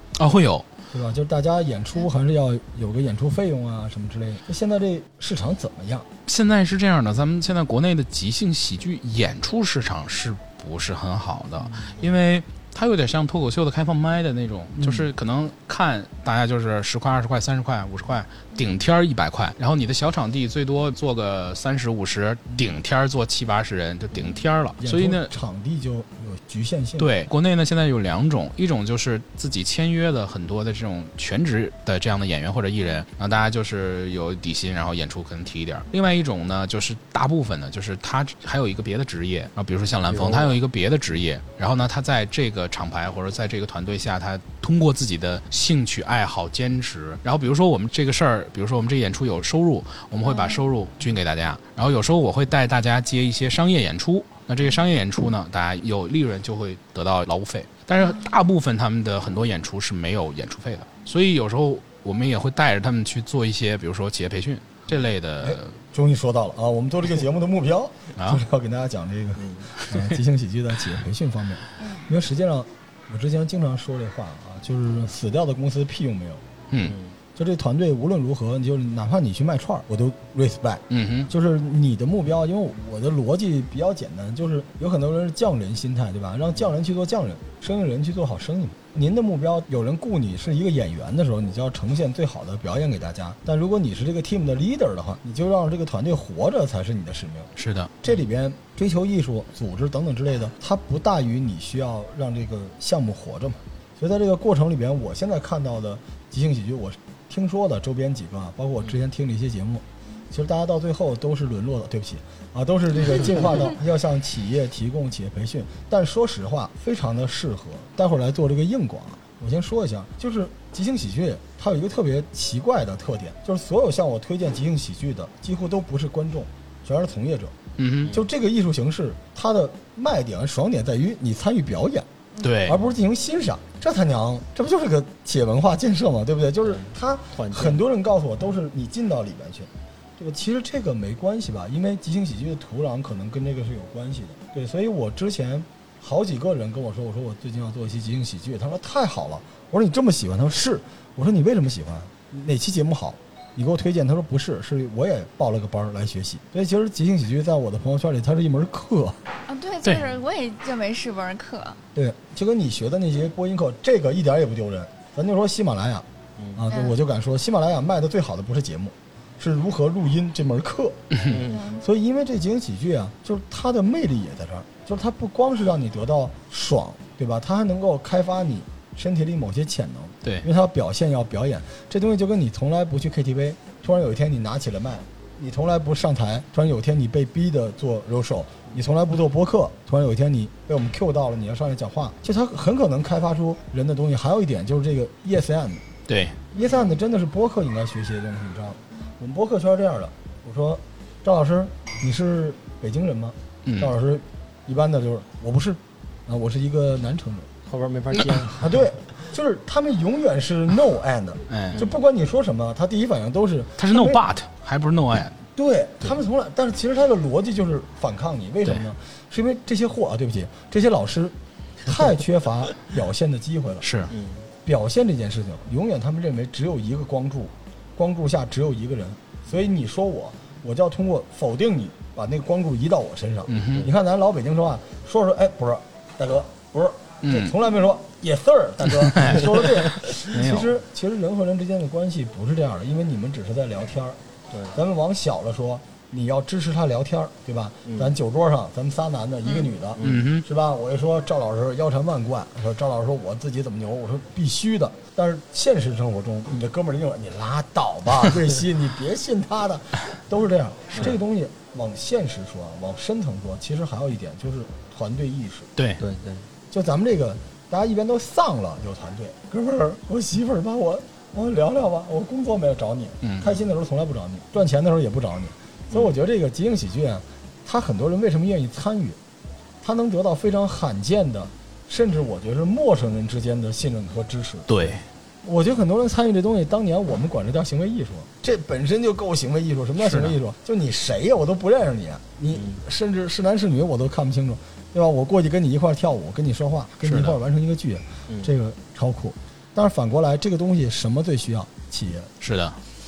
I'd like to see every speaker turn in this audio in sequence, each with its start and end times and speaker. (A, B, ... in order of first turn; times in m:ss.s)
0:00.2-0:00.7 A
0:00.9-0:06.1 B
0:06.2-0:25.3 A
0:14.8-0:15.1 B
0:24.8-0:27.1 B
0:27.0-1:05.7 A
0:40.1-0:40.6 C
0:50.2-0:50.6 D
1:05.4-1:16.4 B
1:09.4-1:09.7 C
1:11.8-1:12.1 D
1:16.8-1:17.1 C
1:17.4-2:07.5 B
1:20.9-1:21.3 A
1:37.6-1:37.9 A
2:07.8-2:08.1 A
2:08.1-2:12.0 B
2:12.4-2:12.8 A
2:12.6-2:39.2 B
2:16.6-2:17.8 C
2:39.5-2:41.8 D
2:41.9-2:51.0 B
2:46.4-2:46.6 C
2:46.7-2:47.0 D
2:51.3-2:51.7 C
2:51.5-2:51.8 D
2:51.8-3:15.8 B
3:16.1-3:16.4 A
3:16.5-3:27.5 B
3:23.6-3:23.9 A
3:27.6-3:28.8 C
3:28.5-3:34.2 B
3:31.5-3:31.8 A
3:33.8-3:35.4 A
3:35.5-3:43.9 B
3:43.8-3:44.1 A
3:44.1-3:44.4 C
3:44.6-4:04.2 B
3:53.5-3:53.8 A
3:57.2-3:57.5 A
3:59.0-4:00.7 A
4:04.5-4:04.8 C
4:04.7-4:25.7 B
4:07.8-4:08.1 C
4:10.0-4:10.2 C
4:10.0-4:10.4 A
4:26.0-4:26.4 C
4:26.7-4:39.2 B
4:33.2-4:33.5 A
4:39.8-5:02.3 B
4:44.7-4:45.0 A
4:50.0-4:50.3 A
4:52.5-4:52.8 C
4:57.0-4:57.4 A
5:02.4-5:02.8 A